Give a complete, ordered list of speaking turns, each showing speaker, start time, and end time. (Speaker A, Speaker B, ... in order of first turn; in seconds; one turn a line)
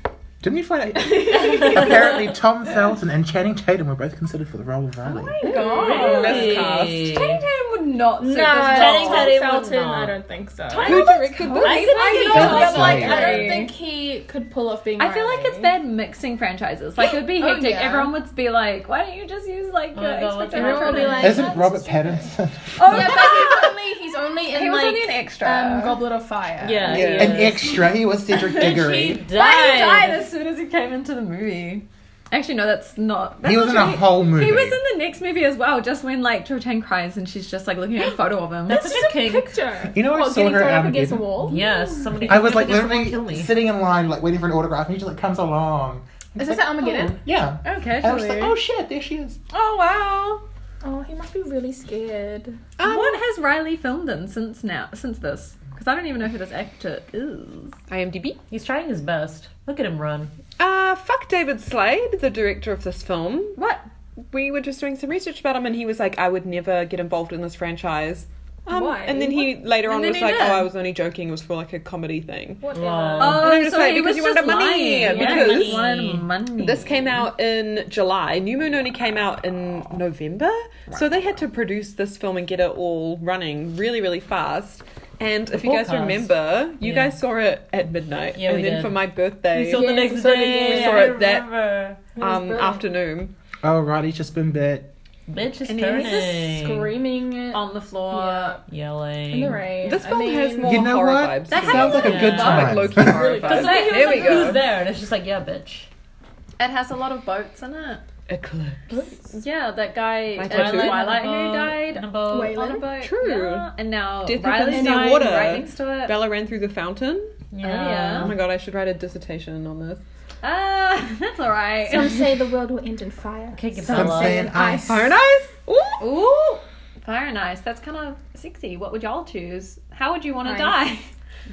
Speaker A: 0.4-5.4
Speaker B: 1.2-2.2
Speaker C: 1.4-2.1
Speaker D: 1.5-1.9
Speaker D: 5.0-9.4
Speaker B: 5.4-6.5
Speaker C: 5.5-7.4
Speaker E: 5.9-7.1
Speaker B: 8.2-15.7
Speaker C: 8.6-10.2
Speaker D: 10.7-13.7
Speaker E: 10.8-12.6
Speaker C: 11.6-13.7
Speaker A: 12.3-13.3
Speaker D: 15.0-21.4
Speaker B: 17.3-18.1
Speaker C: 19.9-21.6
Speaker B: 20.5-27.1
Speaker A: 21.2-23.4
Speaker D: 22.8-23.8
Speaker D: 24.5-26.0
Speaker C: 26.6-27.9
Speaker E: 26.9-27.5
Speaker A: 27.2-29.2
Speaker D: 28.5-28.8
Speaker C: 28.5-30.2
Speaker D: 29.3-39.0
Speaker A: 33.4-34.8
Speaker C: 38.7-39.7
Speaker B: 38.7-42.3
Speaker A: 39.9-41.5
Speaker C: 41.5-43.5
Speaker A: 42.2-49.4
Speaker B: 46.4-47.2
Speaker D: 47.6-48.6
Speaker D: 49.5-50.4
Speaker B: 50.8-52.6
Speaker E: 52.8-53.2
Speaker D: 52.8-57.8
Speaker E: 57.9-58.4
Speaker C: 58.5-60.3
Speaker E: 60.6-63.6
Speaker D: 63.6-63.8
Speaker E: 64.3-72.7
Speaker B: 68.7-69.5
Speaker D: 69.9-70.7
Speaker B: 72.6-73.4
Speaker C: 72.7-73.5
Speaker D: 73.2-77.3
Speaker E: 73.2-75.9
Speaker C: 75.0-76.3
Speaker E: 76.6-91.5
Speaker C: 85.6-87.2
Speaker C: 88.4-89.0
Speaker C: 89.5-92.1
Speaker B: 89.6-91.2
Speaker E: 92.2-93.3
Speaker B: 92.2-92.8
Speaker A: 93.6-94.9
Speaker C: 95.3-97.0
Speaker D: 95.7-96.3
Speaker B: 96.0-98.6
Speaker D: 97.5-98.6
Speaker C: 98.7-99.8
Speaker B: 99.3-100.9
Speaker E: 99.8-104.6
Speaker A: 100.6-103.4
Speaker D: 101.5-102.8
Speaker C: 102.0-105.9
Speaker B: 103.0-104.3
Speaker D: 103.5-104.6
Speaker D: 106.6-108.0
Speaker E: 108.3-108.9
Speaker D: 109.3-116.2
Speaker E: 110.4-111.2
Speaker C: 110.5-112.6
Speaker B: 112.3-112.9
Speaker E: 113.0-113.7
Speaker E: 114.2-117.4
Speaker B: 114.7-115.3
Speaker C: 117.5-118.4
Speaker D: 117.6-118.3
Speaker E: 118.1-120.0
Speaker D: 120.4-122.3
Speaker B: 121.9-125.2
Speaker C: 123.5-124.5
Speaker A: 123.9-125.1
Speaker E: 124.7-126.1
Speaker D: 126.0-131.1
Speaker B: 130.4-130.8